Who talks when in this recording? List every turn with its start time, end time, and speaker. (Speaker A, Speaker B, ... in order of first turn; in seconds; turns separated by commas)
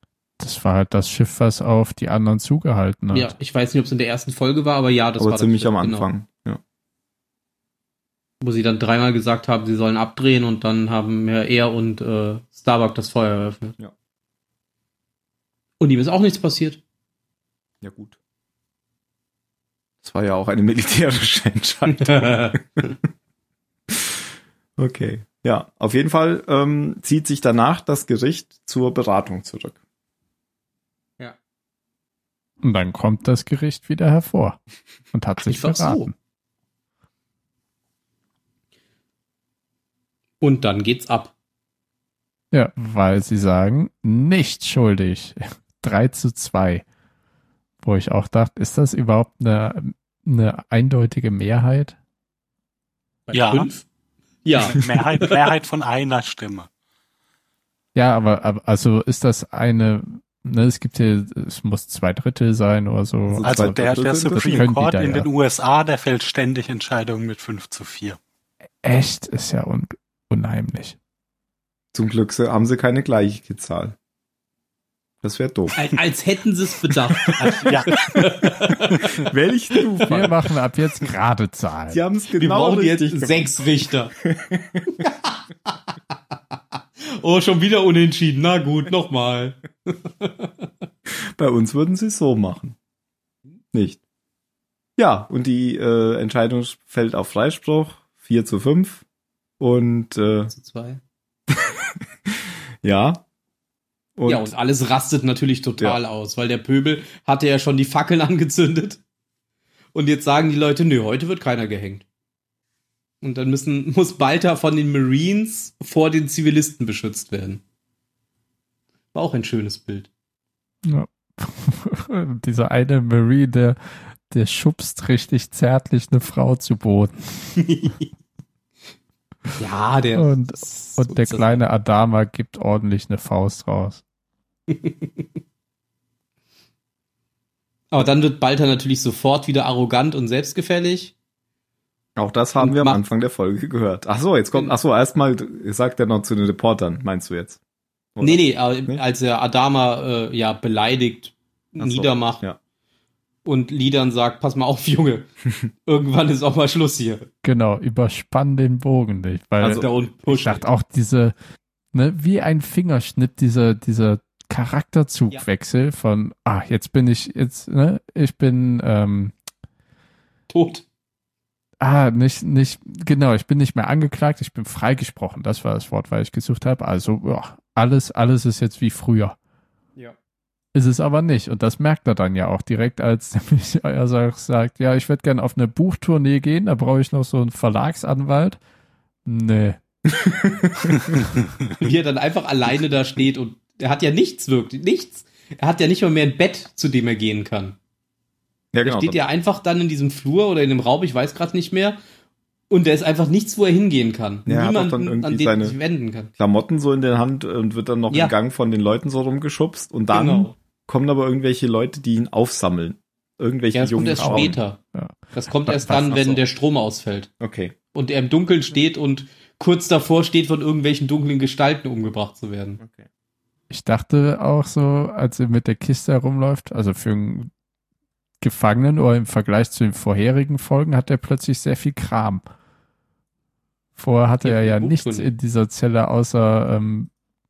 Speaker A: 0.4-3.4, Speaker B: 3.1-6.1, Speaker C: 5.2-6.6, Speaker B: 8.4-13.8, Speaker B: 15.8-16.8, Speaker C: 17.8-18.1, Speaker C: 20.0-22.9, Speaker B: 21.9-22.9, Speaker C: 23.9-24.2, Speaker C: 24.8-29.8, Speaker A: 32.6-34.6, Speaker A: 35.1-36.1, Speaker B: 35.4-36.1, Speaker B: 40.4-41.3, Speaker A: 42.5-46.8, Speaker A: 47.8-52.0, Speaker B: 53.3-53.9, Speaker D: 53.3-53.7, Speaker B: 54.4-55.3, Speaker D: 54.6-56.7, Speaker A: 57.9-65.3, Speaker C: 63.3-64.7, Speaker D: 63.4-68.2, Speaker A: 68.8-71.0, Speaker C: 71.9-74.0, Speaker C: 75.2-75.8, Speaker B: 75.8-79.1, Speaker D: 77.4-77.9, Speaker C: 78.7-80.4, Speaker B: 79.9-80.2, Speaker A: 80.1-82.0, Speaker C: 81.9-83.6, Speaker B: 82.4-84.1, Speaker C: 84.2-84.9, Speaker B: 84.9-85.7, Speaker B: 87.1-90.5, Speaker C: 91.4-92.8, Speaker C: 93.7-94.0, Speaker C: 95.0-99.0, Speaker C: 99.6-100.5, Speaker B: 100.5-101.0, Speaker C: 101.5-102.3, Speaker C: 102.8-103.2, Speaker C: 104.2-104.5, Speaker B: 104.3-109.0, Speaker B: 109.9-112.0, Speaker B: 113.2-117.6, Speaker B: 119.1-120.1, Speaker A: 120.8-123.8, Speaker A: 124.3-127.6, Speaker B: 127.6-128.1, Speaker B: 129.6-131.6, Speaker A: 130.2-134.0, Speaker B: 134.7-135.2, Speaker B: 137.9-141.1, Speaker C: 142.2-147.6, Speaker B: 142.6-143.0, Speaker C: 148.1-149.0, Speaker B: 148.2-152.4, Speaker C: 151.8-152.6, Speaker B: 153.4-155.3, Speaker B: 155.9-157.3, Speaker A: 157.4-161.3, Speaker C: 159.6-159.9, Speaker B: 159.6-160.6, Speaker A: 161.9-169.3, Speaker B: 170.5-170.8, Speaker A: 171.8-179.4, Speaker A: 180.7-188.6, Speaker A: 189.2-189.8, Speaker C: 190.1-191.0, Speaker B: 191.8-197.8, Speaker C: 198.7-199.2, Speaker B: 198.8-202.0, Speaker B: 202.7-206.3, Speaker C: 204.4-205.8, Speaker C: 206.4-214.6, Speaker B: 208.1-208.4, Speaker B: 210.1-210.5, Speaker B: 213.7-214.8, Speaker A: 214.2-215.2, Speaker B: 215.3-217.3, Speaker A: 215.7-216.2, Speaker C: 215.9-216.4, Speaker C: 217.4-217.7, Speaker B: 217.9-222.8, Speaker C: 222.8-223.0, Speaker A: 223.7-227.5, Speaker A: 228.4-232.4, Speaker A: 234.0-237.1, Speaker B: 234.4-235.3